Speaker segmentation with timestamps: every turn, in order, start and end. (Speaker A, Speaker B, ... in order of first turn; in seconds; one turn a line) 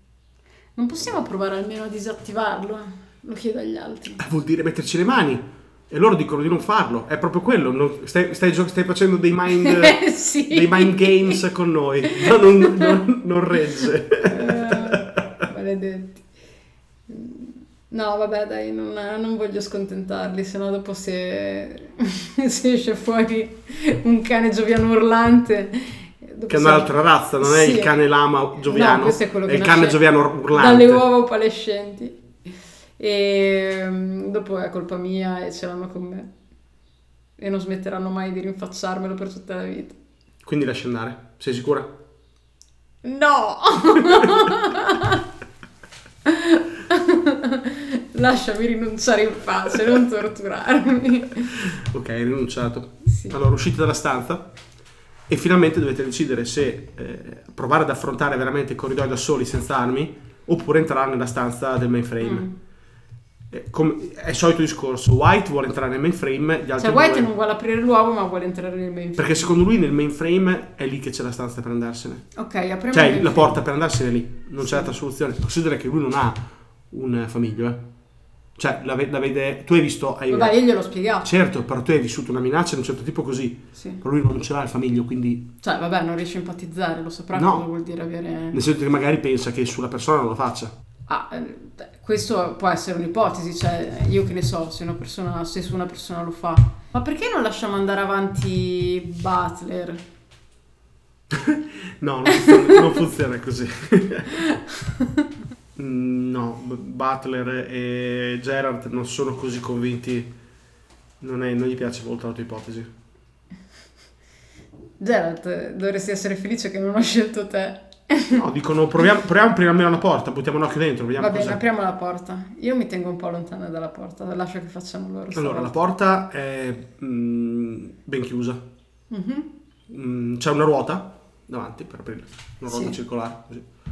Speaker A: 0.8-4.2
Speaker B: 4.2-15.4
Speaker A: 9.5-11.4
Speaker A: 12.0-13.0
Speaker A: 13.8-16.2
Speaker A: 17.1-28.0
Speaker B: 26.5-31.1
Speaker A: 28.6-32.2
Speaker A: 33.0-36.3
Speaker A: 37.4-40.0
Speaker B: 40.5-41.9
Speaker A: 43.0-45.3
Speaker B: 44.1-44.5
Speaker A: 46.2-51.6
Speaker B: 51.5-54.5
Speaker A: 53.1-53.4
Speaker B: 55.3-62.5
Speaker A: 62.2-62.5
Speaker B: 63.5-67.3
Speaker A: 66.8-69.5
Speaker B: 69.2-72.2
Speaker A: 72.3-73.6
Speaker B: 72.9-76.4
Speaker A: 74.6-74.9
Speaker B: 76.9-77.8
Speaker B: 78.6-80.6
Speaker A: 80.3-81.3
Speaker B: 81.2-85.5
Speaker A: 83.8-84.0
Speaker A: 85.6-88.6
Speaker B: 87.3-87.6
Speaker B: 88.5-90.7
Speaker A: 91.1-100.0
Speaker B: 101.3-104.4
Speaker A: 102.3-103.0
Speaker A: 104.5-105.3
Speaker B: 105.8-110.3
Speaker B: 111.2-112.9
Speaker A: 115.0-118.4
Speaker B: 118.3-121.6
Speaker A: 121.2-125.7
Speaker B: 125.3-128.6
Speaker A: 129.1-129.5
Speaker B: 129.9-133.7
Speaker A: 132.7-133.0